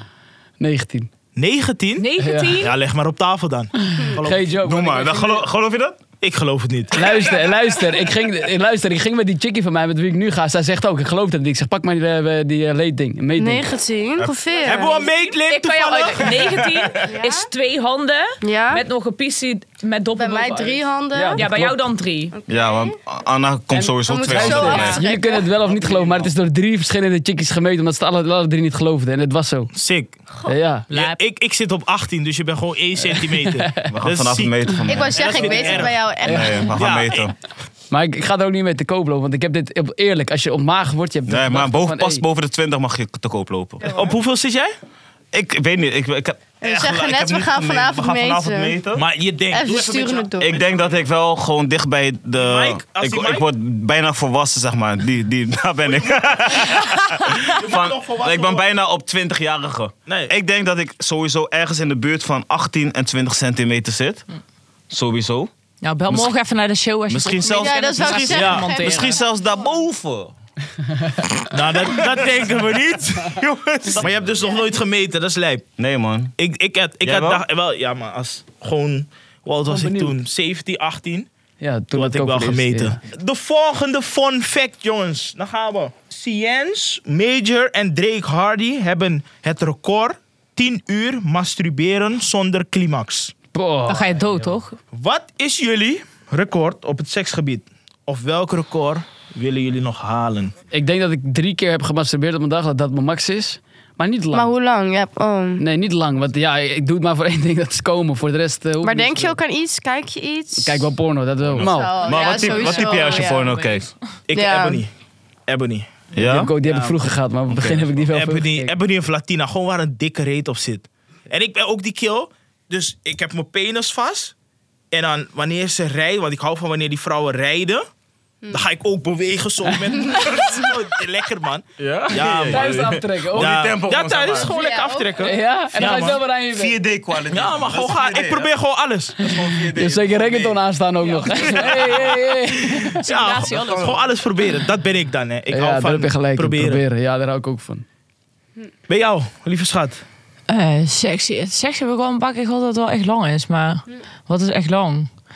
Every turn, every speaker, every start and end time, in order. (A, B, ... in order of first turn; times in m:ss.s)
0:00.6-0:01.1 A
0:01.4-0:02.1 B
0:02.0-0:02.8 C
0:02.2-0:02.6 A
0:02.6-0:04.6 B
0:04.0-0:05.5 A
0:04.6-0:06.0 D
0:06.2-0:07.1 B
0:06.9-0:13.7 A
0:13.4-0:15.1 E
0:14.2-0:14.6 D
0:14.6-0:16.7 B
0:15.3-0:20.8 C
0:17.0-0:17.5 E
0:18.4-0:18.8 E
0:20.2-0:21.4 E
0:21.1-0:21.8 A
0:21.4-0:22.4 C
0:22.3-0:23.0 E
0:22.5-0:25.0 D
0:23.7-0:29.7 A
0:23.9-0:25.5 E
0:24.7-0:25.0 C
0:25.9-0:26.2 D
0:29.7-0:30.2 B
0:30.5-0:30.9 A
0:30.9-0:31.2 C
0:30.9-0:36.0 B
0:33.1-0:33.9 A
0:33.9-0:37.4 D
0:34.9-0:36.8 E
0:36.2-0:36.7 A
0:36.7-0:37.3 B
0:37.9-0:42.2 A
0:41.3-0:44.1 D
0:43.9-0:44.7 B
0:45.3-0:49.1 D
0:46.6-0:48.8 E
0:49.0-0:50.9 B
0:49.5-0:50.6 E
0:50.4-1:04.2 D
0:52.4-0:53.5 B
0:55.9-0:58.8 B
1:00.1-1:00.3 B
1:04.9-1:05.5 D
1:05.8-1:09.2 C
1:06.1-1:06.4 D
1:07.1-1:10.3 D
1:07.5-1:09.7 E
1:08.3-1:08.7 B
1:11.5-1:15.7 B
1:13.2-1:14.3 D
1:15.8-1:16.3 D
1:16.4-1:21.3 B
1:17.0-1:17.4 D
1:19.7-1:20.2 A
1:21.6-1:23.0 A
1:21.9-1:33.3 B
1:33.5-1:34.5 A
1:33.9-1:34.8 C
1:34.9-1:40.5 B
1:40.7-1:44.5 A
1:44.3-1:45.6 E
1:45.6-1:49.4 A
1:48.8-1:50.9 E
1:50.6-1:52.1 A
1:51.5-1:53.9 D
1:51.6-1:53.6 E
1:52.3-1:53.7 C
1:54.3-1:54.9 B
1:54.3-1:54.8 E
1:55.5-1:56.0 B
1:56.1-1:56.5 D
1:56.2-1:58.7 A
1:56.6-1:57.0 B
1:57.5-1:57.9 D
1:58.1-2:04.3 B
2:04.9-2:07.8 B
2:08.5-2:16.2 B
2:10.0-2:10.4 E
2:11.8-2:14.5 D
2:12.5-2:13.6 A
2:14.4-2:15.2 E
2:15.2-2:16.8 A
2:16.5-2:18.5 D
2:17.3-2:19.2 B
2:19.2-2:20.6 D
2:19.3-2:23.0 A
2:22.8-2:26.8 B
2:23.0-2:24.0 C
2:23.5-2:24.0 D
2:25.5-2:27.8 A
2:28.9-2:30.0 B
2:30.5-2:35.1 C